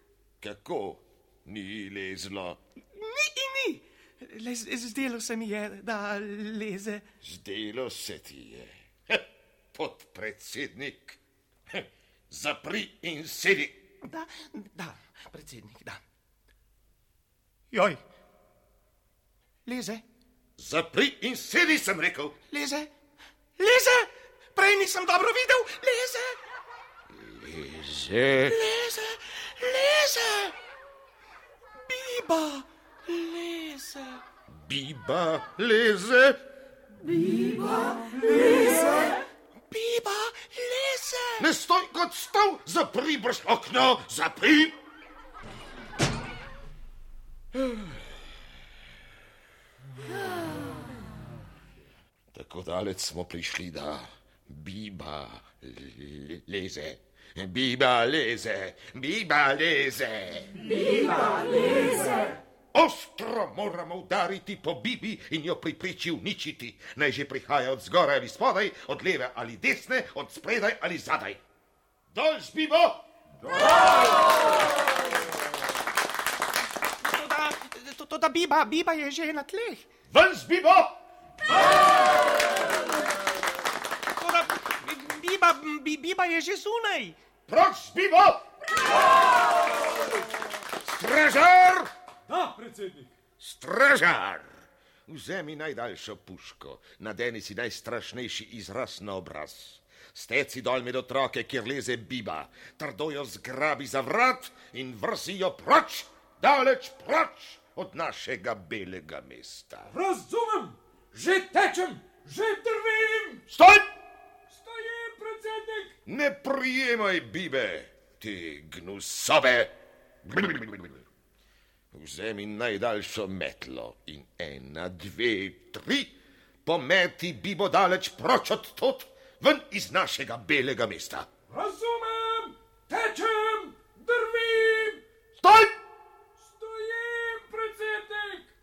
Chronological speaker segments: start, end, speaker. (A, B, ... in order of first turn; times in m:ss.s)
0:00.4-0:02.6 A
0:03.0-0:07.0 B
0:07.2-0:11.2 A
0:11.7-0:13.8 A
0:14.0-0:16.0 B
0:17.7-0:18.0 B
0:19.7-0:20.0 B
0:20.6-0:22.4 A
0:22.5-0:22.9 B
0:23.6-0:26.4 B
0:27.1-0:28.6 A
0:28.4-0:30.6 B
0:31.8-0:34.2 B
0:34.5-0:36.4 A
0:37.8-0:39.1 B
0:39.7-0:41.5 B
0:41.4-0:44.8 A
0:47.6-0:48.0 A
0:52.3-1:00.6 A
1:02.7-1:11.4 A
1:12.1-1:13.0 A
1:17.0-1:19.9 B
1:20.1-1:21.0 A
1:24.2-1:27.2 B
1:27.5-1:28.5 A
1:30.8-1:31.9 A
1:32.3-1:33.1 C
1:33.4-1:34.5 A
1:35.1-1:49.9 A
1:49.9-1:53.4 C
1:53.5-1:53.9 A
1:54.5-1:55.9 C
1:56.1-2:00.9 A
2:01.9-2:11.3 A
2:11.5-2:15.0 C
2:15.4-2:15.8 A
2:16.4-2:18.5 C